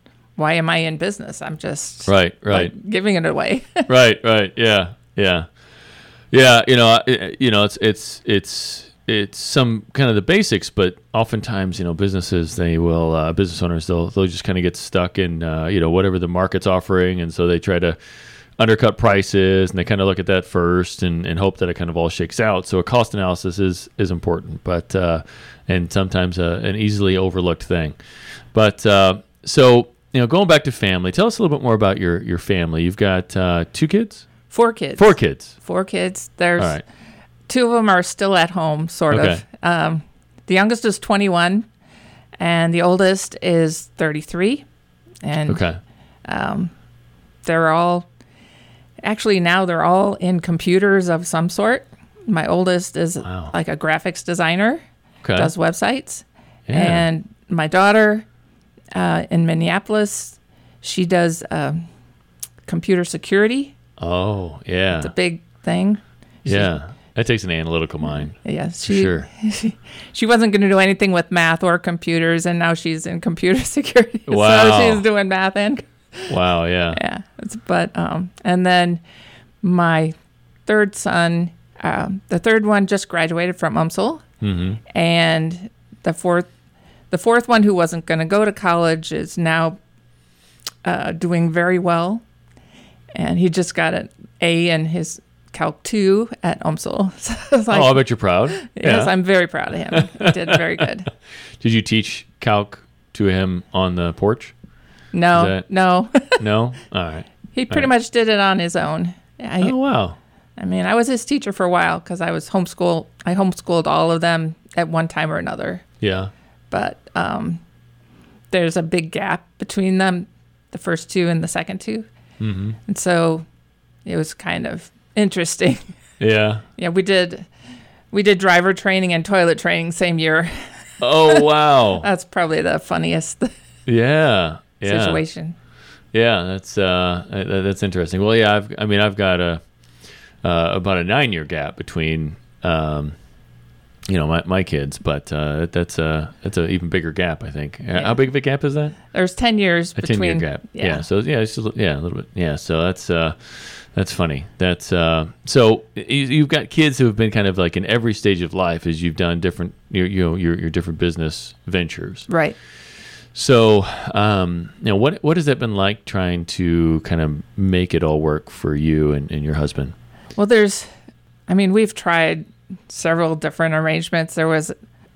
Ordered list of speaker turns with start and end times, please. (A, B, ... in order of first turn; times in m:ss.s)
0:00.4-0:03.9 A
0:02.1-0:02.7 B
0:03.9-0:05.5 B
0:06.3-0:18.0 B
0:18.6-0:28.0 B
0:28.5-0:34.3 B
0:34.5-0:36.8 A
0:35.0-0:35.5 B
0:36.6-0:36.8 B
0:37.5-0:41.7 A
0:39.1-0:39.4 B
0:42.4-0:44.7 A
0:45.2-0:45.6 A
0:45.5-0:45.8 B
0:46.3-0:46.7 A
0:47.4-0:48.1 A
0:49.0-0:54.8 A
0:53.2-0:53.5 B
0:55.2-0:55.5 B
0:55.4-0:58.3 A
0:56.7-0:57.1 B
0:59.0-1:01.8 A
1:02.7-1:03.7 A
1:04.0-1:05.1 B
1:05.0-1:06.7 A
1:06.4-1:09.3 B
1:08.4-1:16.3 A
1:14.3-1:15.0 B
1:16.3-1:17.0 B
1:16.9-1:19.0 A
1:19.6-1:20.1 A
1:20.7-1:24.2 A
1:24.4-1:24.8 B
1:24.9-1:26.5 A
1:27.1-1:29.8 A
1:30.8-1:32.2 A
1:33.2-1:41.1 A
1:37.7-1:39.1 B
1:39.9-1:40.8 B
1:41.6-1:44.5 B
1:45.1-1:46.4 A
1:45.3-1:45.6 B
1:46.4-1:47.9 B
1:47.5-1:49.8 A
1:49.6-1:50.2 B
1:50.6-1:55.8 A
1:56.0-1:56.3 B
1:56.7-1:57.6 A
1:58.5-2:02.1 A
2:02.4-2:02.8 B
2:02.9-2:03.5 A
2:04.0-2:05.8 A
2:06.2-2:06.6 B
2:06.8-2:07.5 A
2:08.1-2:10.5 A
2:11.0-2:12.1 B
2:11.2-2:13.5 A
2:13.9-2:15.2 B
2:14.8-2:15.6 A
2:16.1-2:19.6 B
2:20.4-2:23.1 B
2:24.1-2:29.0 B
2:29.1-2:31.0 A
2:30.0-2:42.3 B
2:42.3-2:42.6 A
2:43.3-2:49.9 B
2:50.4-2:50.9 A
2:51.5-2:54.7 A